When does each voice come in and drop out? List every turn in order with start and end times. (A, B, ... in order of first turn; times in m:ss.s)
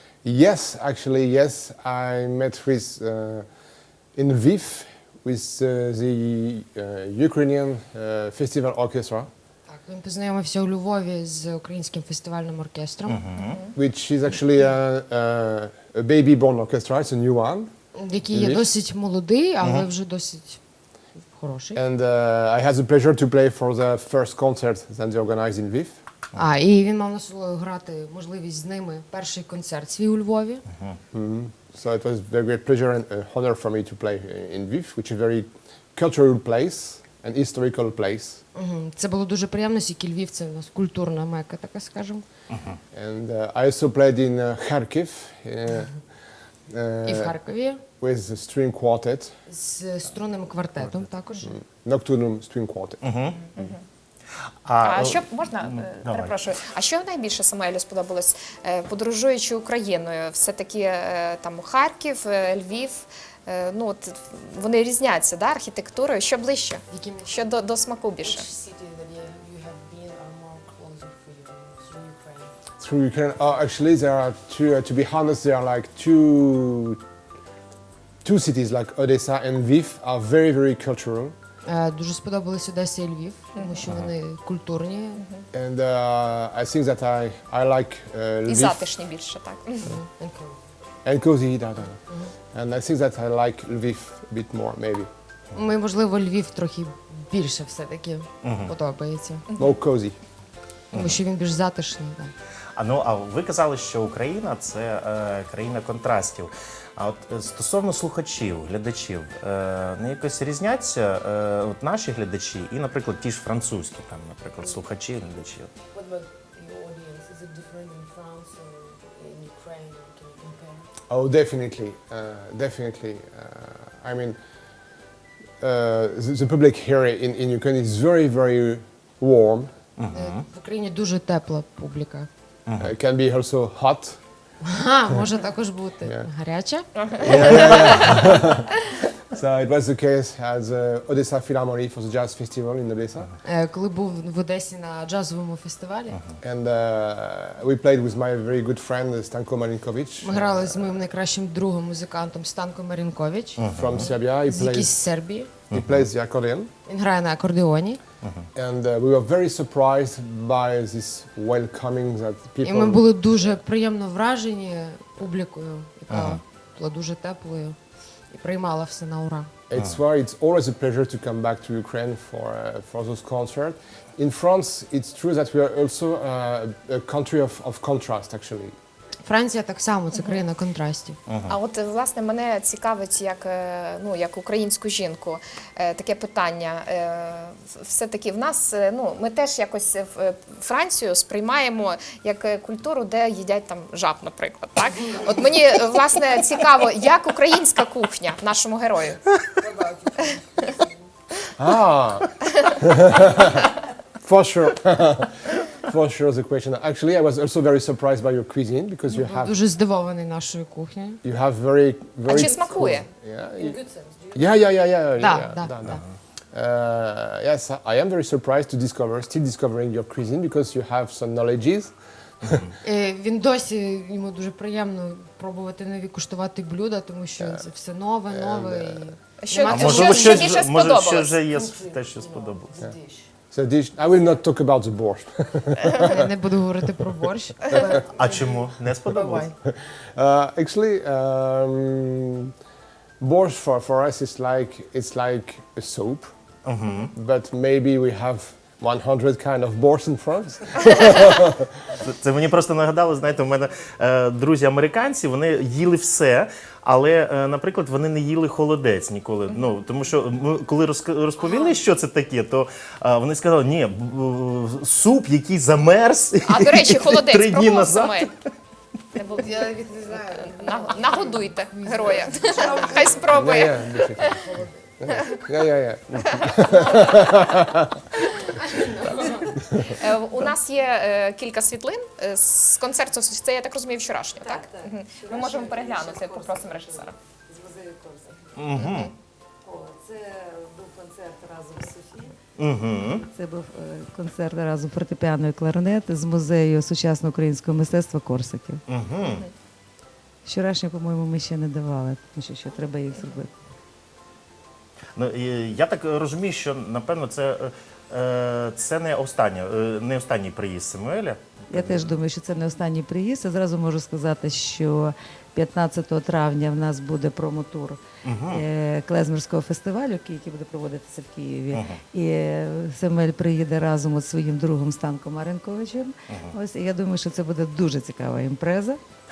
0:00.2-0:03.5 A
0:04.1-0:09.3 A
0:09.7-0:13.3 B
0:13.1-0:13.6 C
0:13.4-0:13.7 D
0:13.7-0:17.7 A
0:18.0-0:20.6 B
0:18.3-0:18.7 A
0:19.6-0:19.9 C
0:21.2-0:21.8 B
0:21.7-0:26.0 A
0:26.3-0:30.6 B
0:31.1-0:38.4 A
0:38.5-0:42.2 B
0:42.5-0:42.8 C
0:42.9-0:46.0 A
0:46.7-0:47.4 A
0:47.0-0:47.8 B
0:48.0-0:49.4 A
0:49.5-0:51.5 B
0:51.4-0:53.0 A
0:53.0-0:53.7 C
0:53.5-0:53.8 D
0:54.6-0:56.6 C
0:54.8-1:08.5 D
1:06.9-1:07.4 B
1:08.2-1:12.6 E
1:12.8-1:17.0 A
1:18.2-1:21.3 A
1:21.6-1:25.2 B
1:23.6-1:23.8 D
1:23.8-1:24.1 C
1:25.2-1:25.4 D
1:25.5-1:28.9 A
1:28.4-1:29.9 D
1:29.9-1:30.5 B
1:31.0-1:35.1 A
1:35.5-1:39.4 B
1:38.4-1:38.7 C
1:39.6-1:40.2 A
1:40.9-1:41.2 C
1:40.9-1:42.3 B
1:42.8-1:55.7 C
1:54.6-1:54.8 E
1:55.9-2:00.9 E
2:01.1-2:04.4 A
2:05.6-2:09.7 A
2:10.0-2:10.4 C
2:10.1-2:12.3 B
2:12.6-2:12.9 C
2:12.8-2:14.2 A
2:14.6-2:18.4 B
2:16.0-2:16.3 A
2:17.0-2:18.2 D
2:17.1-2:23.3 A
2:23.4-2:26.2 B
2:26.4-2:31.1 A
2:30.2-2:35.5 B
2:33.6-2:34.1 C
2:33.7-2:34.9 A
2:35.7-2:36.7 A
2:36.8-2:38.0 B
2:38.2-2:38.5 C
2:38.5-2:43.6 A
2:42.6-2:47.8 B
2:46.1-2:46.4 C
2:48.3-2:49.5 B
2:49.7-2:58.8 A
2:59.2-3:01.2 B
3:01.3-3:01.6 C
3:01.5-3:19.2 D
3:19.6-3:21.1 E
3:21.5-3:29.6 A
3:22.5-3:22.8 D
3:29.1-3:31.2 B
3:31.2-3:33.8 A
3:32.2-3:33.1 D
3:32.3-3:33.0 E
3:33.5-3:34.6 E
3:34.3-3:42.6 A
3:35.2-3:36.0 B
3:42.8-3:50.6 B
3:47.4-3:47.6 A
3:48.3-3:49.1 A
3:49.4-3:51.5 D
3:49.6-3:52.8 C
3:51.5-3:53.3 E
3:53.5-3:56.3 A
3:56.0-3:58.1 B
3:57.9-3:59.5 E
3:58.1-3:59.5 C
3:59.6-4:02.5 A
4:03.2-4:06.3 A
4:06.6-4:07.1 C
4:07.1-4:11.9 A
4:12.0-4:28.5 C
4:21.4-4:21.8 D
4:26.4-4:28.3 D
4:29.1-4:29.7 D
4:29.4-4:30.5 B
4:29.4-4:35.3 E
4:30.5-4:34.4 D
4:31.8-4:33.2 B
4:33.3-4:34.4 A
4:35.0-4:38.1 A
4:36.3-4:37.2 D
4:38.4-4:39.9 B
4:39.6-4:39.9 A
4:39.8-4:47.1 D
4:44.4-4:48.8 F
4:48.6-4:49.1 C
4:48.8-4:49.1 D
4:49.6-4:52.4 F
4:52.6-4:53.2 C
4:52.9-4:58.8 F
4:58.9-4:59.5 C
4:59.2-4:59.5 D
5:00.4-5:03.5 F
5:05.2-5:12.1 C
5:11.7-5:29.0 F
5:18.2-5:18.6 C
5:21.7-5:22.0 C
5:26.3-5:26.5 C